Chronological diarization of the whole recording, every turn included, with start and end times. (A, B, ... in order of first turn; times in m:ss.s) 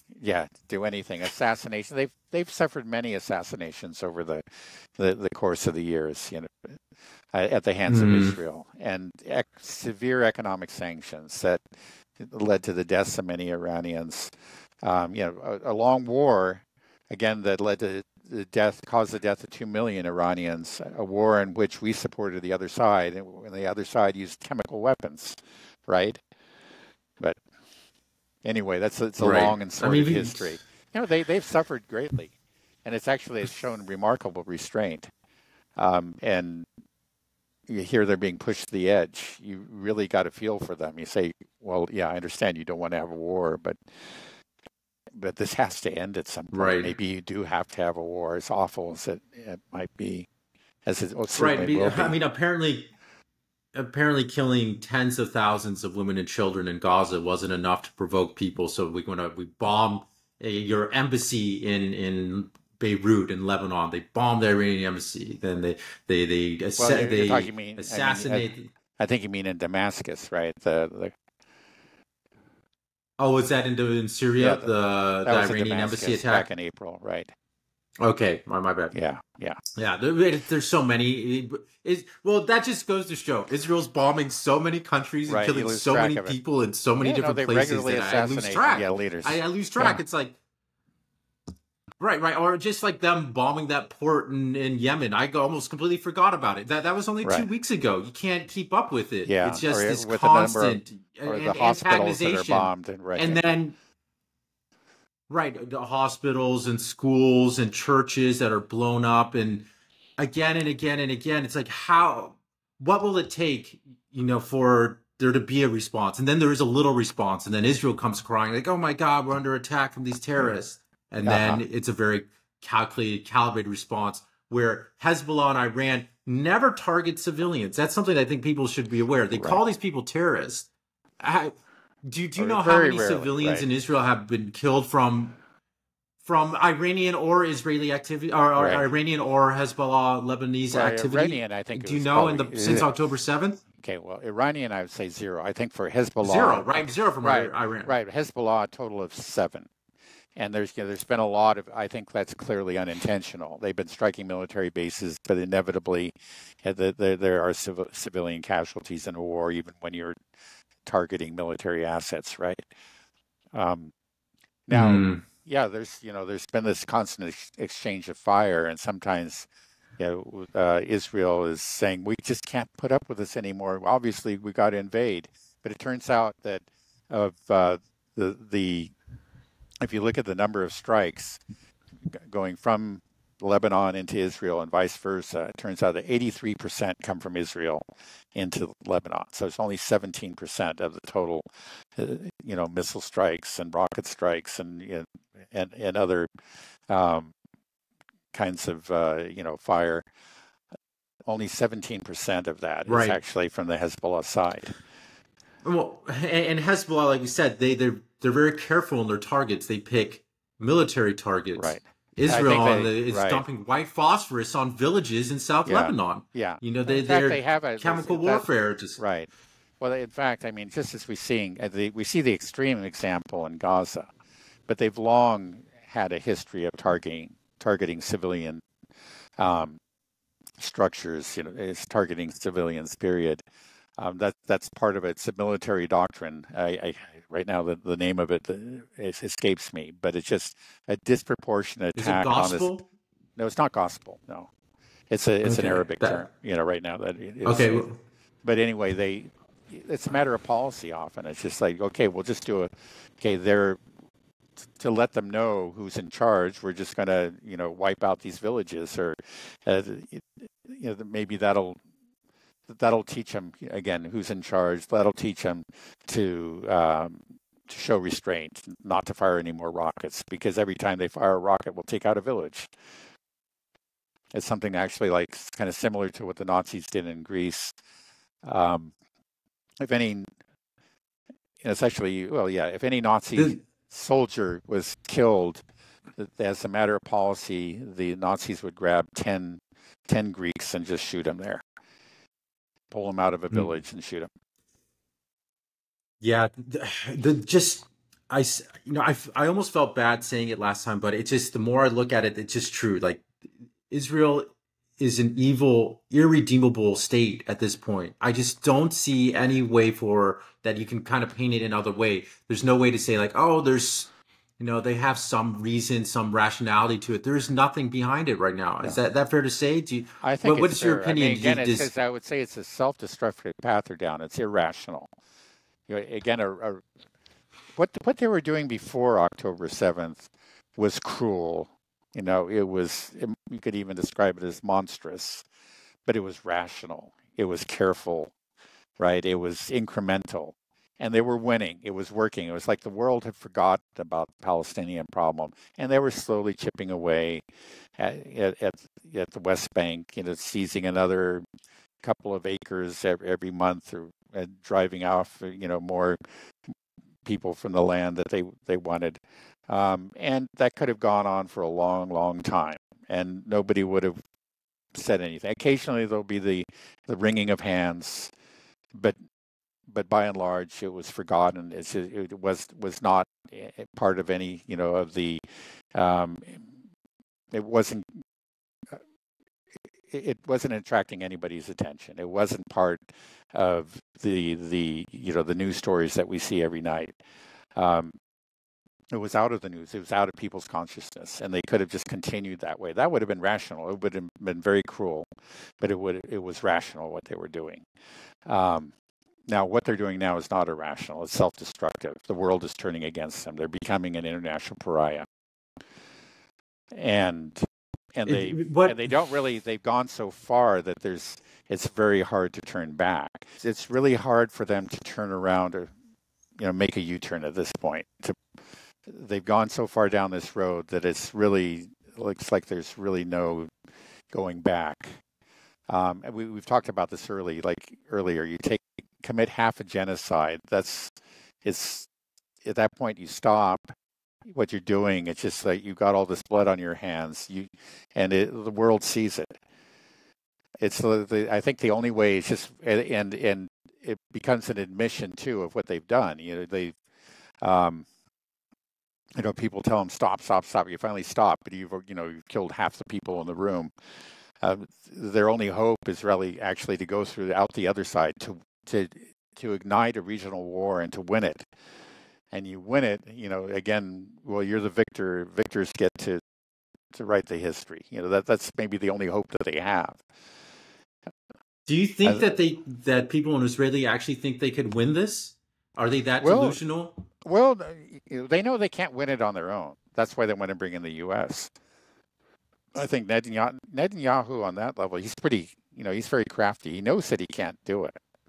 0:00.1-0:06.8 A
0:07.3-0:11.6 A
0:07.9-0:08.4 B
0:12.2-0:26.2 A
0:28.4-0:35.1 A
0:29.2-0:30.6 B
0:35.8-0:36.7 A
0:37.7-0:44.2 A
0:45.1-0:50.3 A
0:46.5-0:46.9 B
0:50.8-0:52.2 A
0:51.3-0:52.9 B
0:53.7-1:08.7 B
1:06.8-1:11.2 A
1:13.2-1:16.5 B
1:14.4-1:14.7 A
1:15.2-1:17.3 A
1:18.0-1:18.9 B
1:18.9-1:19.6 A
1:19.8-1:30.4 B
1:25.3-1:26.4 A
1:27.0-1:30.0 A
1:32.0-1:43.8 B
1:37.2-1:37.5 A
1:39.2-1:43.4 A
1:45.3-1:49.7 B
1:50.2-2:10.7 B
2:01.2-2:01.6 A
2:09.3-2:09.6 A
2:11.2-2:11.5 B
2:12.0-2:15.4 B
2:12.4-2:13.6 A
2:16.2-2:23.6 B
2:18.6-2:18.9 A
2:20.7-2:22.9 A
2:23.8-2:29.7 A
2:26.2-2:27.9 B
2:30.4-2:40.2 A
2:40.8-2:42.7 A
2:43.5-2:43.9 A
2:44.7-2:58.9 A
2:44.7-2:45.2 B
2:59.8-3:01.4 A
3:02.0-3:07.8 A
3:08.3-3:16.3 A
3:16.9-3:17.3 A
3:18.3-3:20.1 A
3:21.2-3:24.8 A
3:22.9-3:23.2 B
3:25.6-3:39.0 B
3:31.6-3:33.4 A
3:35.6-3:38.4 A
3:39.0-3:39.3 A
3:39.8-3:44.1 A
3:44.7-3:48.7 A
3:49.4-3:49.8 A
3:50.6-3:53.4 A
3:54.0-4:02.7 A
4:02.0-4:02.9 B
4:03.4-4:04.5 A
4:05.1-4:07.9 A
4:05.4-4:06.2 B
4:07.4-4:08.0 B
4:08.4-4:13.8 A
4:14.8-4:21.8 A
4:22.7-4:32.7 A
4:34.3-4:37.7 A
4:38.4-4:38.9 A
4:39.8-4:40.3 A
4:41.6-4:45.6 A
4:46.2-4:51.6 A
4:52.9-4:54.3 A
4:56.2-5:03.2 B
5:03.9-5:21.9 B
5:20.2-5:25.1 A
5:25.9-5:26.8 A
5:27.8-5:35.4 A
5:36.0-5:38.3 A
5:39.0-5:47.4 A
5:48.0-5:51.4 A
5:52.0-6:04.2 A
6:04.9-6:08.3 A
6:09.9-6:16.7 A
6:17.5-6:18.2 A
6:20.1-6:27.2 A
6:27.8-6:28.1 A
6:29.1-6:35.3 A
6:35.8-6:37.9 A
6:38.4-6:38.9 A
6:39.5-6:45.2 A
6:46.9-6:55.9 A
6:48.2-6:49.1 B
6:56.6-6:58.4 A
6:59.0-7:03.7 A
7:04.3-7:05.2 A
7:05.9-7:12.1 A
7:12.6-7:13.9 A
7:14.4-7:19.6 A
7:20.8-7:27.0 A
7:27.6-7:28.1 A
7:29.4-7:33.9 A
7:34.6-7:41.7 A
7:42.5-7:46.4 A
7:47.1-7:50.2 A
7:51.9-7:57.2 B
7:56.4-7:56.8 A
7:57.4-8:01.7 A
8:02.9-8:08.2 A